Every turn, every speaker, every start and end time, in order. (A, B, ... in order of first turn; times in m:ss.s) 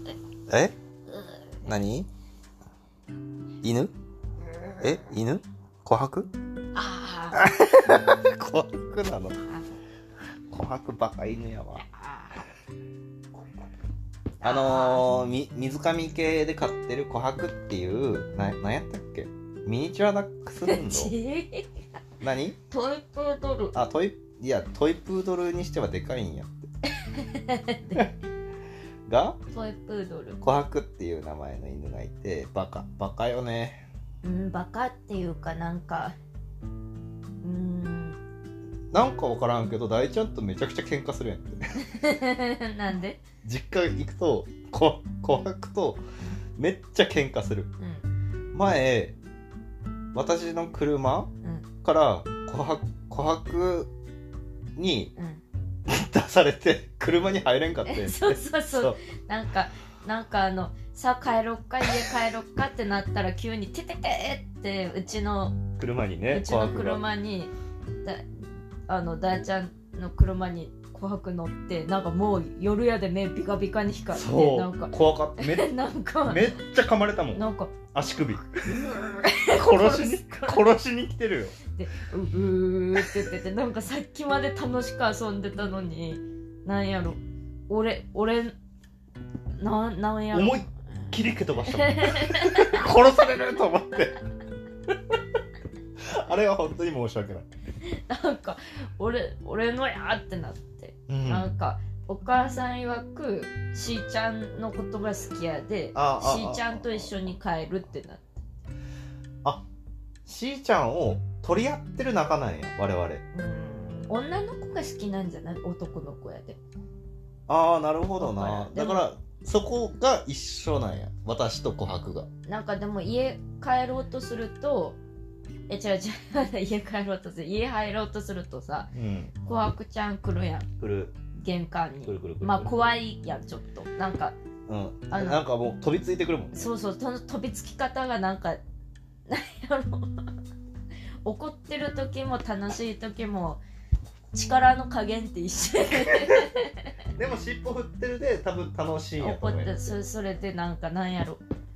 0:00.5-0:00.7 A
0:01.6-0:02.1 A
0:03.6-0:03.9 A
0:04.8-0:06.3 A
0:06.7-0:08.0 B
0:07.3-0:09.4 A
0:10.5-0:11.8 A
0:11.8-0:12.5 B
0:14.4-0:15.0 B
0:14.4-0:21.1 A
0:20.7-0:21.7 B
0:22.2-0:22.6 A
0:22.7-0:23.8 B
0:23.8-0:26.7 A
0:27.0-0:28.1 B
0:29.1-0:29.4 A
0:29.5-0:30.4 B
0:30.4-0:33.8 A
0:34.2-0:36.2 B
0:37.4-0:38.2 B
0:38.9-0:41.6 A
0:41.8-0:43.2 B
0:43.4-0:46.0 A
0:46.6-0:47.7 A
0:47.8-0:48.1 B
0:48.5-0:49.2 A
0:50.1-0:51.3 A
0:51.8-0:53.9 A
0:54.8-0:55.1 A
0:55.2-0:55.4 B
0:55.9-0:59.0 A
0:57.9-1:05.6 B
1:05.8-1:07.0 A
1:06.3-1:07.5 B
1:08.0-1:16.6 B
1:14.1-1:15.7 A
1:16.2-1:21.6 A
1:17.3-1:17.8 B
1:18.7-1:20.7 B
1:21.8-1:28.5 B
1:29.6-1:31.1 B
1:30.3-1:34.2 A
1:31.7-1:32.9 B
1:36.0-1:37.5 A
1:37.8-1:48.4 B
1:41.1-1:41.5 A
1:46.0-1:47.2 A
1:50.2-1:53.2 A
1:53.3-1:56.6 B
1:57.5-2:02.3 A
1:58.2-1:59.1 B
2:02.5-2:05.0 B
2:05.7-2:08.9 B
2:08.9-2:09.3 A
2:09.4-2:10.7 B
2:10.8-2:11.2 A
2:11.3-2:14.4 B
2:12.0-2:13.0 A
2:14.7-2:16.7 A
2:15.1-2:15.4 B
2:16.5-2:18.6 B
2:19.3-2:20.3 B
2:21.2-2:23.6 B
2:24.3-2:26.9 B
2:26.0-2:26.5 A
2:27.1-2:29.9 A
2:29.2-2:31.4 B